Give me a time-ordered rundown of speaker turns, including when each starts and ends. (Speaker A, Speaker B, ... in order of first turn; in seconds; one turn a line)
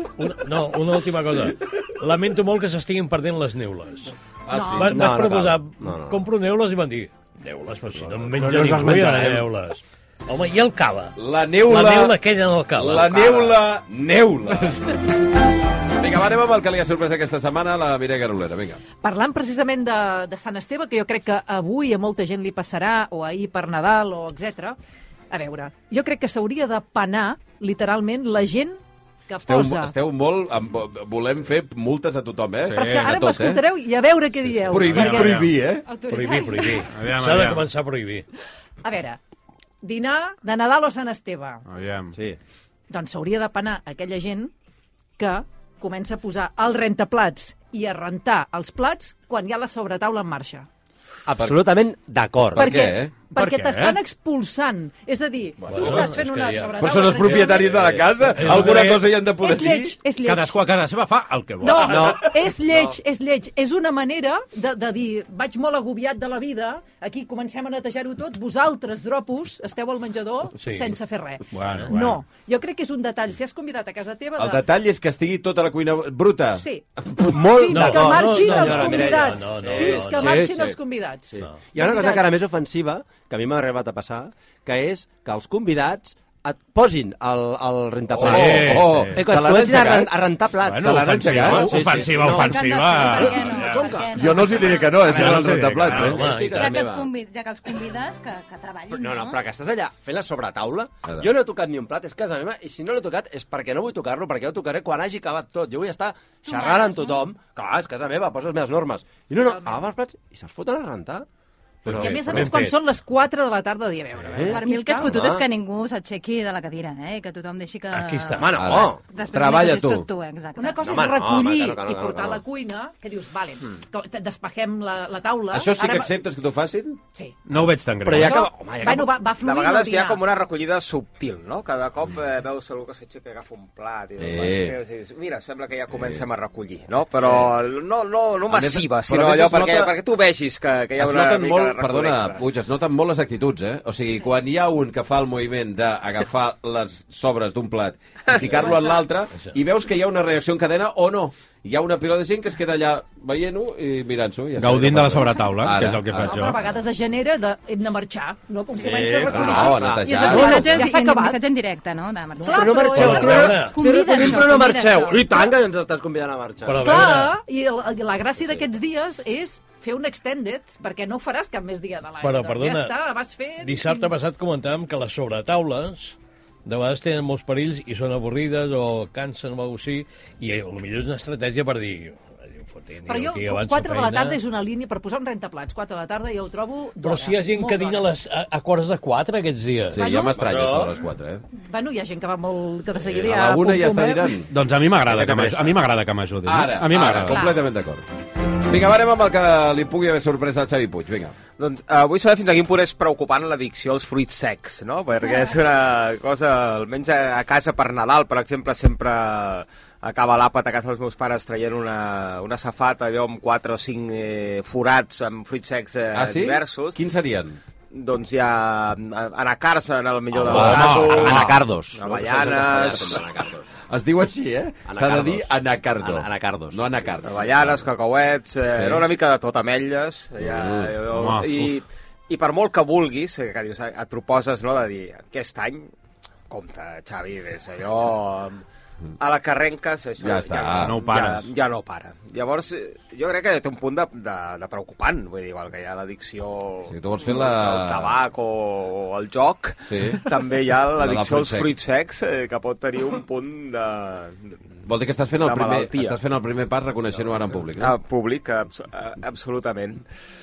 Speaker A: 0.2-4.1
Speaker B: 4.5-4.9
Speaker C: 4.5-4.9
Speaker A: 4.8-13.4
Speaker D: 4.9-6.2
Speaker D: 8.1-9.5
Speaker B: 11.2-12.2
Speaker B: 12.7-15.0
Speaker B: 16.0-18.8
Speaker C: 19.0-24.8
Speaker C: 25.3-29.9
Speaker B: 29.4-33.6
Speaker E: 32.7-33.1
Speaker C: 32.7-35.5
Speaker E: 34.7-35.5
Speaker B: 34.7-35.9
Speaker F: 35.8-36.9
Speaker A: 36.1-38.2
Speaker E: 36.9-37.6
Speaker C: 38.8-39.2
Speaker C: 39.8-41.6
Speaker E: 41.7-42.1
Speaker C: 42.9-44.5
Speaker C: 45.2-50.7
Speaker D: 51.3-52.8
Speaker B: 52.5-53.1
Speaker C: 52.5-57.9
Speaker E: 53.3-54.0
Speaker B: 55.6-56.1
Speaker A: 55.7-56.7
Speaker B: 56.8-60.0
Speaker A: 58.4-59.0
Speaker C: 58.5-60.6
Speaker E: 60.2-62.9
Speaker C: 61.6-74.6
Speaker D: 61.8-62.3
Speaker A: 70.6-70.9
Speaker E: 71.5-72.2
Speaker B: 74.4-76.6
Speaker C: 76.5-82.4
Speaker D: 77.2-80.8
Speaker A: 77.7-80.4
Speaker D: 81.3-97.1
Speaker E: 88.2-89.2
Speaker B: 88.2-90.1
Speaker E: 90.6-93.8
Speaker B: 90.8-91.8
Speaker F: 92.2-95.0
Speaker B: 94.1-96.2
Speaker E: 95.0-96.2
Speaker A: 95.9-96.8
Speaker F: 96.5-99.4
Speaker D: 98.9-111.2
Speaker F: 106.4-107.3
Speaker C: 109.5-109.8
Speaker D: 111.8-112.5
Speaker C: 111.9-115.2
Speaker A: 112.0-112.8
Speaker D: 114.3-115.4
Speaker F: 114.5-121.1
Speaker A: 117.9-118.5
Speaker D: 118.3-119.0
Speaker B: 118.5-120.0
Speaker C: 120.6-126.1
Speaker D: 120.8-122.4
Speaker B: 125.5-127.0
Speaker E: 127.5-128.5
Speaker D: 128.0-129.2
Speaker C: 128.1-130.2
Speaker G: 129.3-142.4
Speaker B: 134.2-134.8
Speaker B: 137.2-137.4
Speaker B: 138.5-139.9
Speaker B: 141.0-156.5
Speaker C: 148.5-149.0
Speaker E: 154.6-156.6
Speaker C: 156.2-161.4
Speaker D: 158.7-160.7
Speaker B: 159.3-160.8
Speaker F: 160.1-165.2
Speaker C: 162.4-165.4
Speaker D: 162.5-167.2
Speaker A: 162.9-163.8
Speaker A: 166.6-167.3
Speaker C: 166.8-174.2
Speaker A: 172.2-172.9
Speaker A: 173.6-184.4
Speaker C: 183.1-188.1
Speaker A: 187.0-190.0
Speaker B: 189.9-191.4
Speaker C: 189.9-190.4
Speaker D: 190.3-190.9
Speaker C: 191.7-194.3
Speaker B: 193.0-194.5
Speaker E: 194.5-197.4
Speaker D: 195.0-195.7
Speaker B: 196.4-198.0
Speaker F: 197.3-197.6
Speaker B: 198.6-201.3
Speaker G: 201.6-217.0
Speaker B: 216.1-217.6
Speaker G: 217.9-223.2
Speaker D: 220.3-223.7
Speaker B: 220.4-221.5
Speaker E: 220.5-221.4
Speaker B: 222.9-223.2
Speaker B: 223.9-227.8
Speaker D: 224.9-225.5
Speaker D: 226.0-226.8
Speaker G: 227.2-235.9
Speaker B: 228.7-229.1
Speaker B: 230.4-231.0
Speaker E: 231.1-231.7
Speaker G: 236.5-238.6
Speaker G: 239.2-254.6
Speaker B: 240.2-241.0
Speaker E: 240.8-241.5
Speaker B: 246.9-248.1
Speaker B: 249.9-250.2
Speaker B: 251.0-251.7
Speaker B: 254.8-257.9
Speaker G: 255.3-256.2
Speaker G: 257.8-260.0